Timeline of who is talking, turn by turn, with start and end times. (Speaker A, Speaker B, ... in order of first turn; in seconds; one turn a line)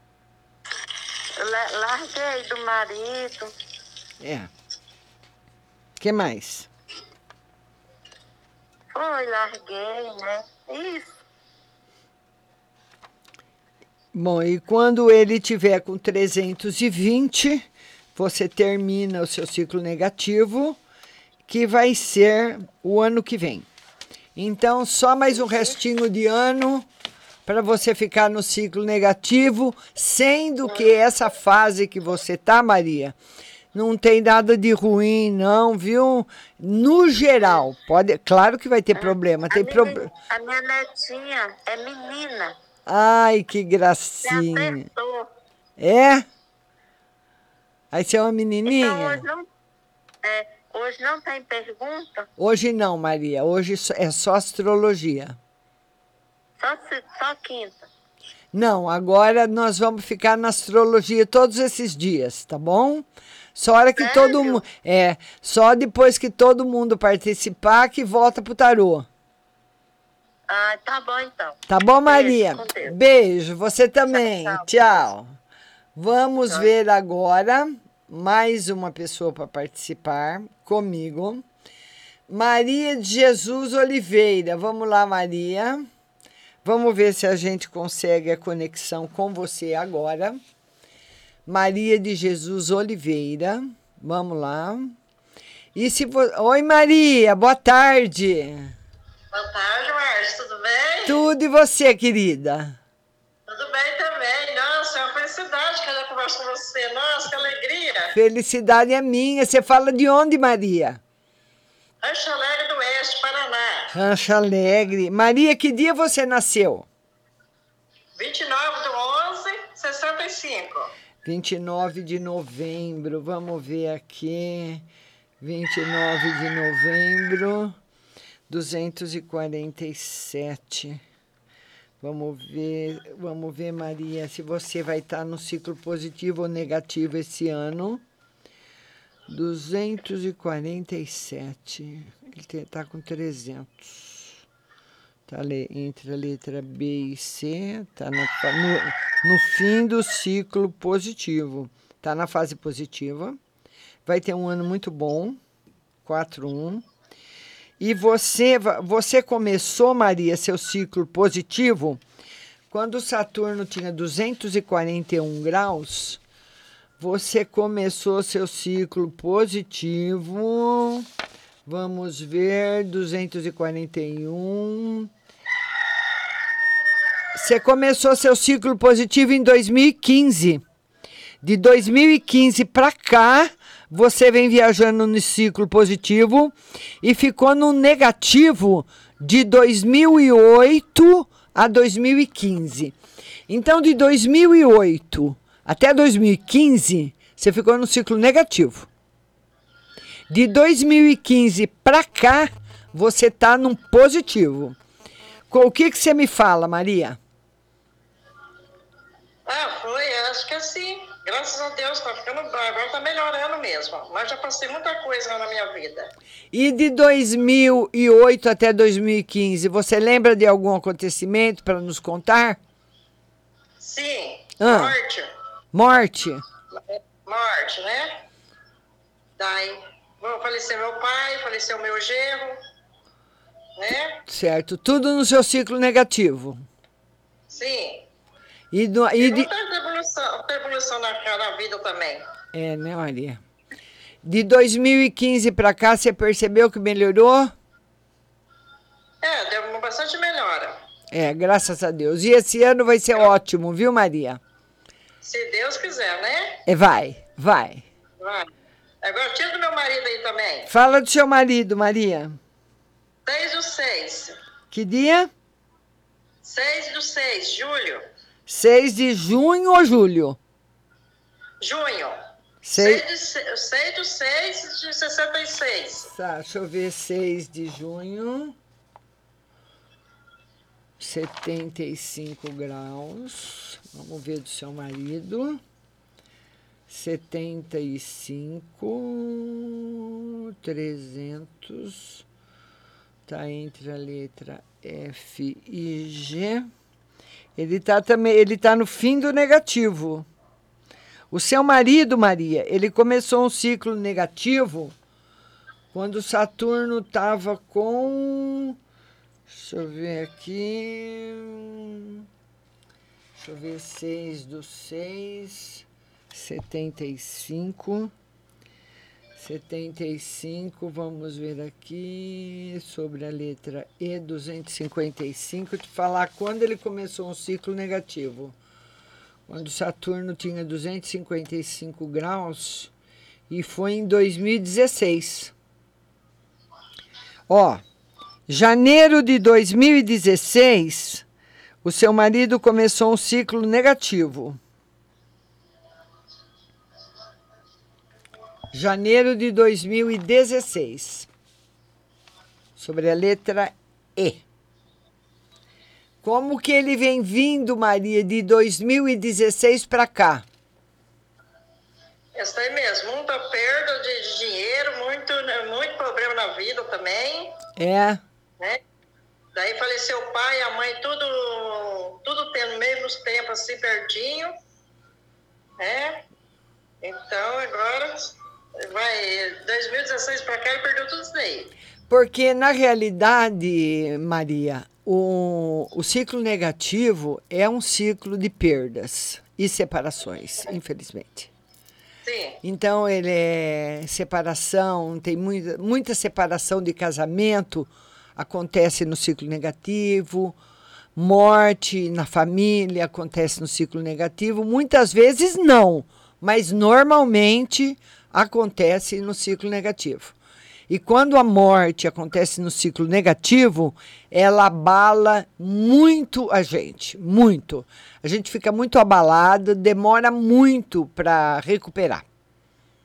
Speaker A: 1.4-3.5
Speaker B: 4.2-4.5
Speaker B: 6.0-6.7
Speaker A: 8.9-11.1
Speaker B: 14.1-20.8
Speaker B: 21.5-23.7
Speaker B: 24.4-26.9
Speaker B: 27.5-33.2
Speaker B: 33.7-40.0
Speaker A: 39.0-42.5
Speaker B: 42.9-44.9
Speaker A: 44.2-45.3
Speaker B: 45.8-46.3
Speaker B: 47.9-49.2
Speaker A: 48.7-49.5
Speaker A: 50.2-52.3
Speaker B: 52.4-55.4
Speaker A: 56.6-57.9
Speaker B: 58.5-69.1
Speaker A: 64.0-64.5
Speaker A: 70.5-73.0
Speaker B: 71.7-75.3
Speaker A: 74.1-74.6
Speaker B: 76.0-81.5
Speaker B: 82.3-85.9
Speaker B: 86.6-90.4
Speaker B: 91.5-95.0
Speaker B: 95.8-98.8
Speaker C: 99.3-101.2
Speaker B: 101.1-102.8
Speaker C: 103.5-108.2
Speaker B: 108.1-111.0
Speaker C: 112.0-113.9
Speaker B: 113.9-116.9
Speaker C: 118.2-120.9
Speaker B: 121.2-124.9
Speaker B: 125.4-127.8
Speaker B: 128.5-131.0
Speaker B: 132.0-138.0
Speaker B: 139.3-144.4
Speaker B: 145.3-153.4
Speaker B: 154.1-155.4
Speaker B: 156.0-156.9
Speaker B: 157.8-162.0
Speaker B: 162.7-166.2
Speaker B: 167.0-171.1
Speaker B: 171.7-175.1
Speaker B: 177.3-180.6
Speaker B: 181.4-192.9
Speaker B: 193.5-198.9
Speaker B: 200.3-204.8
Speaker B: 205.5-207.2
Speaker C: 209.5-216.1
Speaker B: 216.5-222.6
Speaker C: 223.8-225.3
Speaker B: 224.6-224.9
Speaker B: 225.7-226.4
Speaker C: 226.8-228.2
Speaker C: 229.4-232.6
Speaker C: 233.8-234.2
Speaker B: 234.3-236.6
Speaker C: 237.5-238.0
Speaker B: 238.7-239.5
Speaker C: 239.2-242.2
Speaker B: 242.5-243.4
Speaker B: 244.2-247.5
Speaker C: 249.2-250.8
Speaker B: 251.1-254.4
Speaker C: 255.2-256.6
Speaker B: 256.7-257.9
Speaker C: 258.2-258.5
Speaker C: 259.0-260.7
Speaker B: 260.7-262.4
Speaker C: 263.3-264.4
Speaker B: 264.7-265.3
Speaker C: 266.4-268.1
Speaker B: 268.5-270.4
Speaker C: 271.6-272.2
Speaker B: 272.6-273.0
Speaker C: 272.7-276.1
Speaker B: 276.1-278.6
Speaker B: 281.0-285.6
Speaker B: 286.9-292.2
Speaker B: 293.3-296.7
Speaker B: 297.6-300.3
Speaker B: 301.3-304.9
Speaker B: 305.9-308.8
Speaker B: 309.5-312.2
Speaker B: 313.4-318.1
Speaker B: 319.4-328.6
Speaker B: 329.5-332.9
Speaker B: 333.5-335.5
Speaker B: 337.5-337.8
Speaker B: 338.5-341.2
Speaker B: 341.8-344.6
Speaker B: 348.7-351.3
Speaker B: 352.8-354.4
Speaker B: 356.2-360.4
Speaker C: 362.4-367.5
Speaker B: 367.8-368.2
Speaker C: 369.6-374.5
Speaker C: 375.8-376.2
Speaker C: 377.0-381.7
Speaker B: 382.1-391.5
Speaker C: 392.2-392.6
Speaker B: 392.6-400.6
Speaker B: 401.2-410.4
Speaker B: 410.9-422.2